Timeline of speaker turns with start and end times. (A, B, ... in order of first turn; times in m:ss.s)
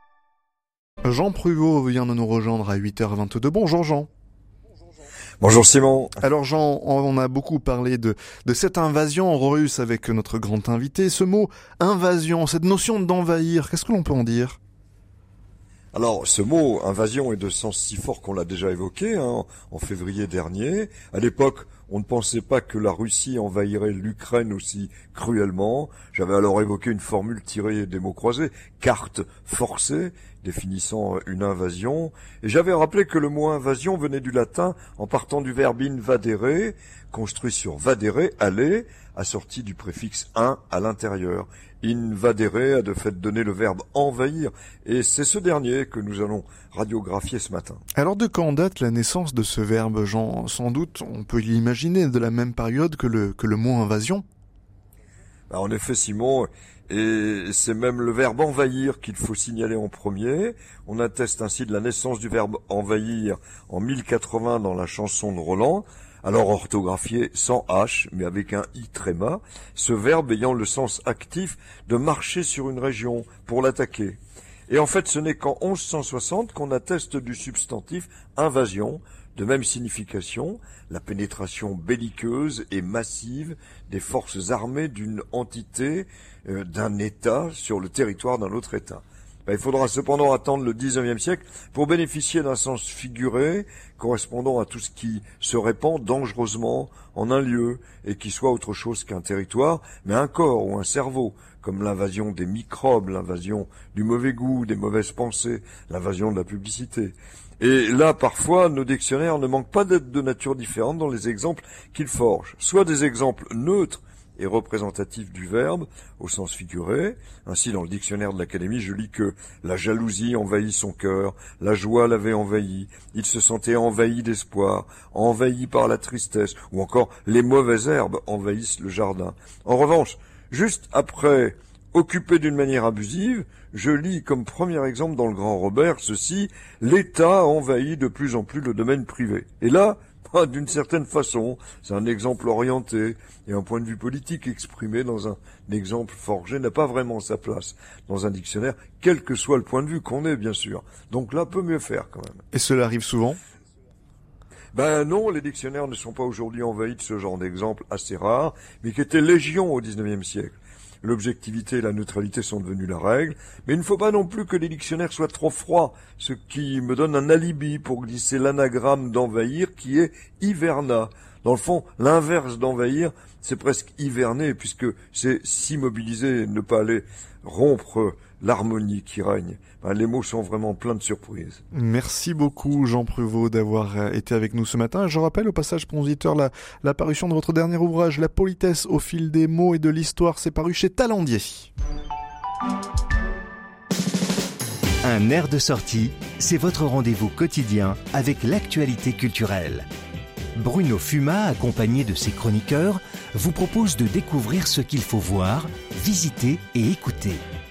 0:01.0-0:04.1 A
0:05.4-0:06.2 B
0:06.2-0:14.6 A
0:15.9-0:47.8 B
0:48.0-0:54.2 A
0:55.5-2:32.4 B
2:32.5-2:33.4 A
2:34.7-3:01.6 B
3:01.7-3:11.7 A
3:15.0-3:19.9 C
3:20.6-3:27.4 C